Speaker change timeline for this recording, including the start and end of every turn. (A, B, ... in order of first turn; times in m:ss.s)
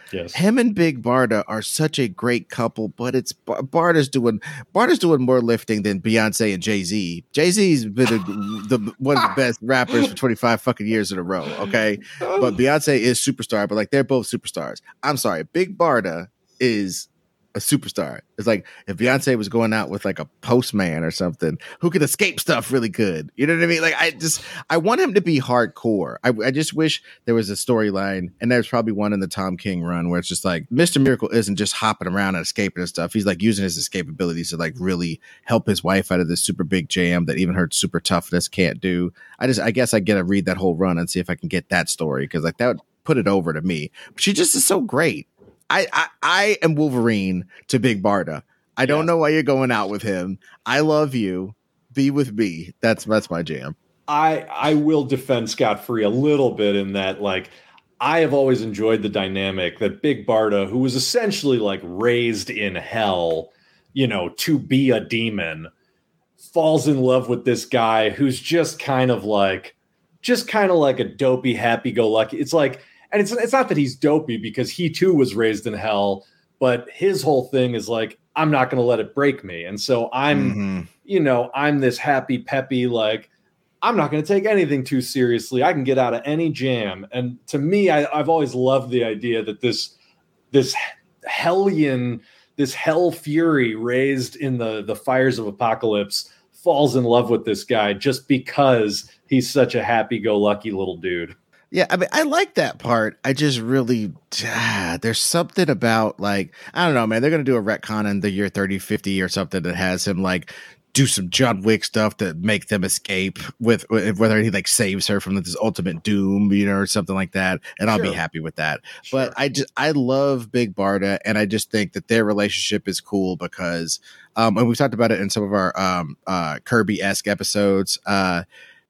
0:00.1-0:00.4 A
0:00.3-0:53.8 B
0:12.2-0:12.5 A
0:48.8-0:49.1 A
0:54.1-1:05.7 A
1:06.4-1:23.3 A
1:20.3-1:20.9 B
1:23.8-1:30.0 A
1:30.5-1:41.4 A
1:41.7-2:08.4 B
1:57.9-1:58.2 A
1:59.0-1:59.4 A